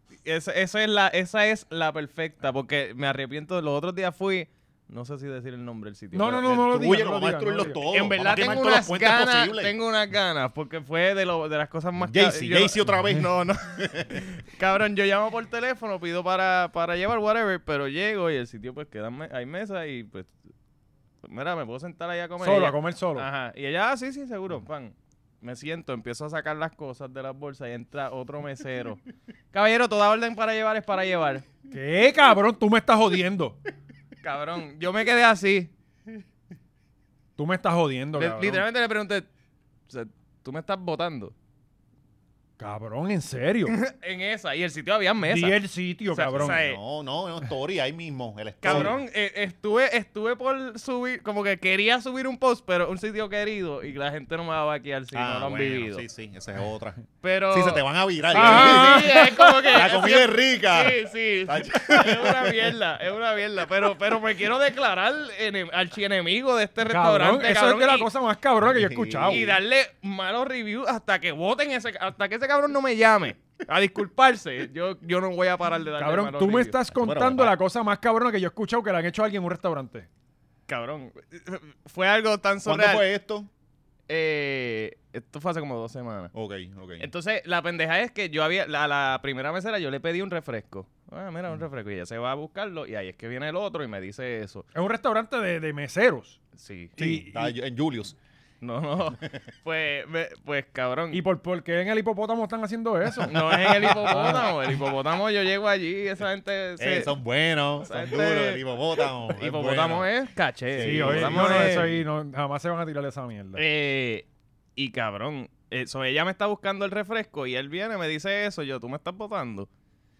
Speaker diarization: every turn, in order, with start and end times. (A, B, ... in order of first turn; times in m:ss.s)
0:00.2-0:06.5 A
0:06.1-0:07.8 B
0:06.3-0:09.7 C
0:07.9-0:20.3 A
0:12.0-0:14.2 C
0:21.2-0:29.0 A
0:22.4-0:23.3 B
0:29.5-0:31.4 A
0:31.7-0:33.6 B
0:34.2-0:35.7 A
0:37.4-0:38.6 B
0:38.2-0:39.3 A
0:39.9-0:41.3 A
0:42.6-0:43.7 B
0:43.7-0:45.6 A
0:45.2-0:46.6 B
0:46.1-0:46.8 A
0:46.3-0:49.0 C
0:48.6-0:56.0 A
0:48.6-0:49.0 B
0:55.1-1:02.8 C
0:57.2-1:08.1 A
0:58.3-0:59.8 B
1:06.8-1:09.4 B
1:08.6-1:09.6 C
1:09.3-1:16.8 A
1:16.0-1:20.1 B
1:16.9-1:17.6 C
1:20.7-1:23.0 A
1:22.6-1:23.5 C
1:24.1-1:26.3 A
1:26.3-1:27.1 C
1:27.0-1:34.6 A
1:34.7-1:36.4 B
1:36.6-1:37.0 A
1:37.0-1:37.5 B
1:37.0-1:38.2 C
1:38.6-1:41.2 A
1:41.1-1:44.5 B
1:43.2-1:47.1 A
1:46.8-1:50.1 C
1:47.8-1:51.9 A
1:50.7-1:52.0 C
1:50.8-1:53.6 B
1:53.6-1:59.7 A